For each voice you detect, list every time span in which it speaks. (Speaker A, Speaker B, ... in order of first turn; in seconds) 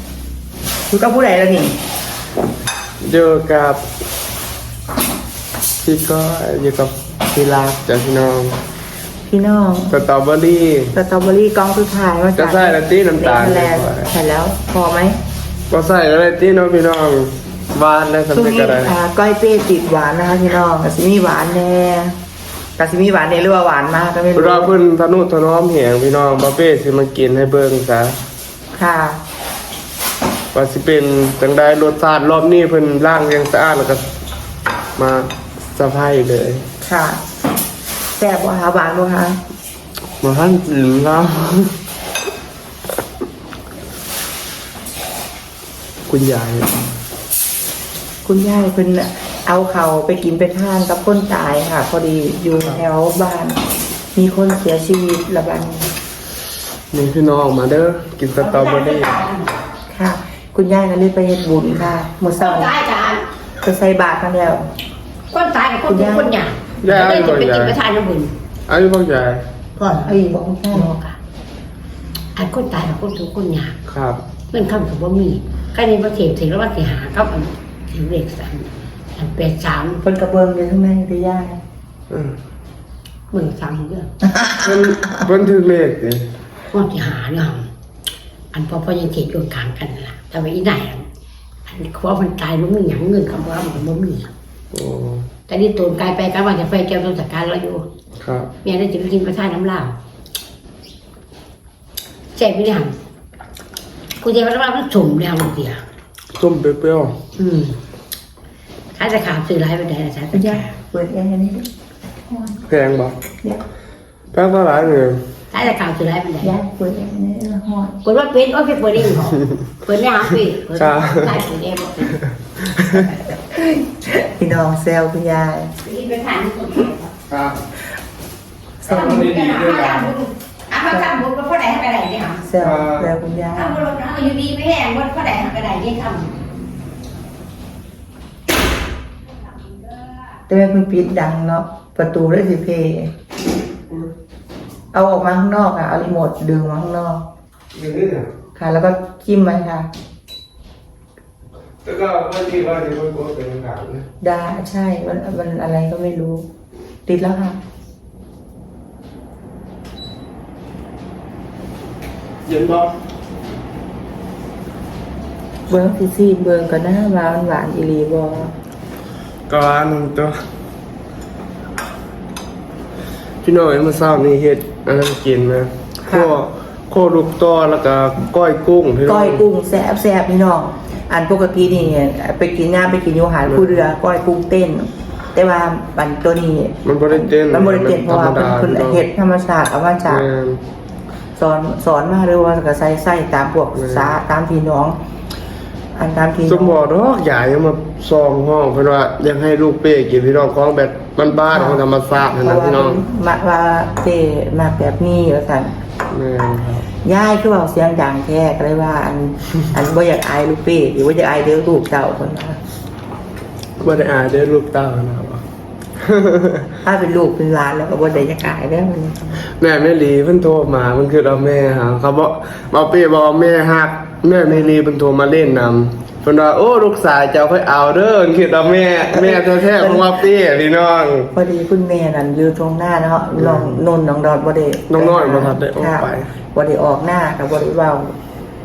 Speaker A: 0.9-1.8, 9.3-9.9, 10.9-15.2, 18.3-22.1, 22.8-24.7, 28.8-29.2, 36.8-37.2, 38.2-39.4, 48.2-53.6, 54.1-55.9, 59.9-62.7, 63.6-64.7, 65.9-66.3, 70.0-71.0, 80.0-81.6, 84.3-84.6, 110.3-111.7, 112.3-112.6, 116.4-118.0, 123.5-125.7, 132.4-133.8, 140.5-143.1, 144.9-147.2, 148.6-149.9, 154.2-156.5, 157.1-157.6, 165.7-168.5, 176.1-176.3, 179.1-190.2, 191.4-195.0, 195.9-196.8, 201.5-201.8, 202.4-205.8, 207.0-212.6, 216.8-219.4, 229.1-230.2, 231.3-238.1
Speaker B: 3.0-3.8, 5.8-8.6, 9.9-10.9, 12.4-14.1, 15.7-18.9, 24.3-28.2, 30.5-34.1, 35.0-36.7, 40.2-41.8, 46.1-46.9, 56.9-59.3, 66.8-67.8, 68.7-69.5, 73.9-74.2, 82.1-82.4, 84.6-86.3, 94.7-95.3, 98.2-98.5, 106.4-107.2, 112.7-113.2, 114.3-115.2, 120.8-121.4, 122.2-123.0, 127.3-127.6, 128.8-130.1, 132.6-133.1, 147.7-148.3, 151.8-154.1, 162.4-162.9, 169.5-170.4, 173.4-179.4, 183.5-183.9, 186.8-189.0, 190.1-190.6, 193.8-194.1, 196.5-203.0, 206.1-206.9, 213.8-215.4, 216.0-216.7, 219.6-231.3, 233.4-233.8, 234.9-236.3
Speaker C: 58.4-59.5, 62.4-63.2, 65.3-68.3, 69.8-70.2, 70.7-71.1, 72.4-73.8, 74.5-80.0, 83.3-84.1, 86.7-87.7, 88.5-91.1, 91.7-94.3, 95.5-97.8, 98.6-100.0, 102.3-103.0, 104.2-105.8, 107.4-107.8, 109.0-110.7, 115.5-116.5, 118.0-122.1, 125.8-127.1, 128.8-132.5, 133.6-136.3